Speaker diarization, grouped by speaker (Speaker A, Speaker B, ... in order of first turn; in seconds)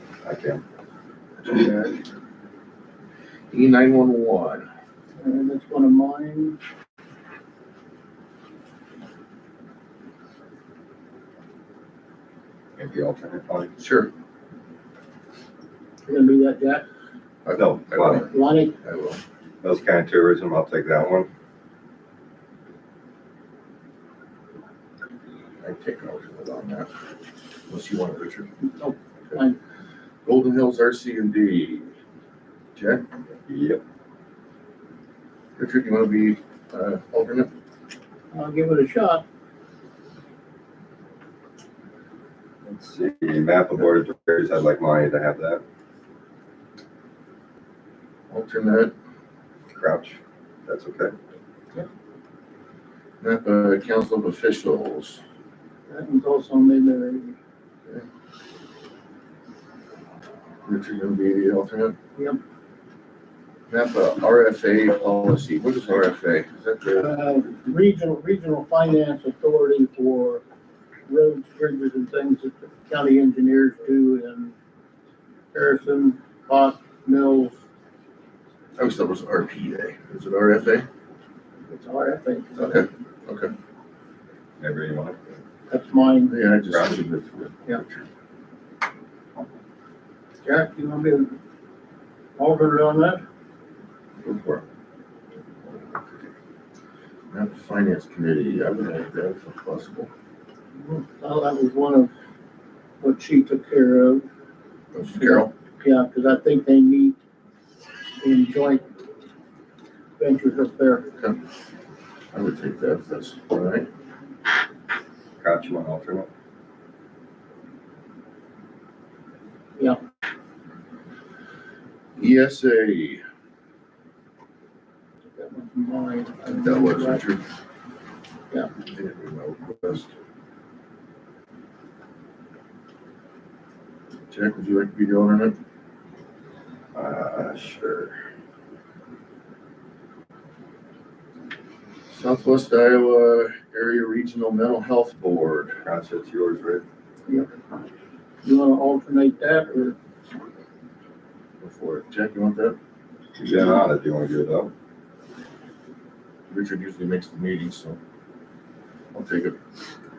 Speaker A: 0.2-0.6, 12.8-13.7, 17.6-18.2, 19.6-21.3, 33.5-33.8, 42.6-45.6, 49.7-51.1, 84.6-85.2, 86.7-87.0, 115.4-116.3, 136.9-138.2, 145.8-146.8, 153.3-154.7
Speaker B: 1.4-2.0, 3.5-4.7, 13.8-14.1, 17.4-18.3, 18.8-19.2, 25.6-26.9, 27.7-28.5, 30.2-31.9, 32.7-33.0, 35.6-37.5, 48.3-48.9, 53.2-55.2, 60.6-62.0, 63.7-67.1, 78.8-80.9, 82.6-83.5, 86.3-88.1, 94.2-94.7, 97.3-100.1, 104.9-105.5, 112.3-113.9, 122.2-123.2, 126.5-127.4, 128.8-130.1, 134.3-135.6, 142.1-145.8, 151.6-152.8, 156.5-158.0, 159.1-159.6
Speaker C: 5.2-6.6, 16.1-16.8, 18.2-18.7, 28.6-29.6, 38.3-39.2, 55.9-57.4, 62.1-62.4, 66.9-70.4, 71.1-74.5, 75.5-77.5, 81.7-82.9, 85.7-86.4, 90.4-91.3, 92.4-93.2, 100.8-102.1, 103.0-104.2, 105.1-107.2, 108.2-108.8, 110.2-111.1, 125.3-127.3, 147.3-147.5, 148.4-149.9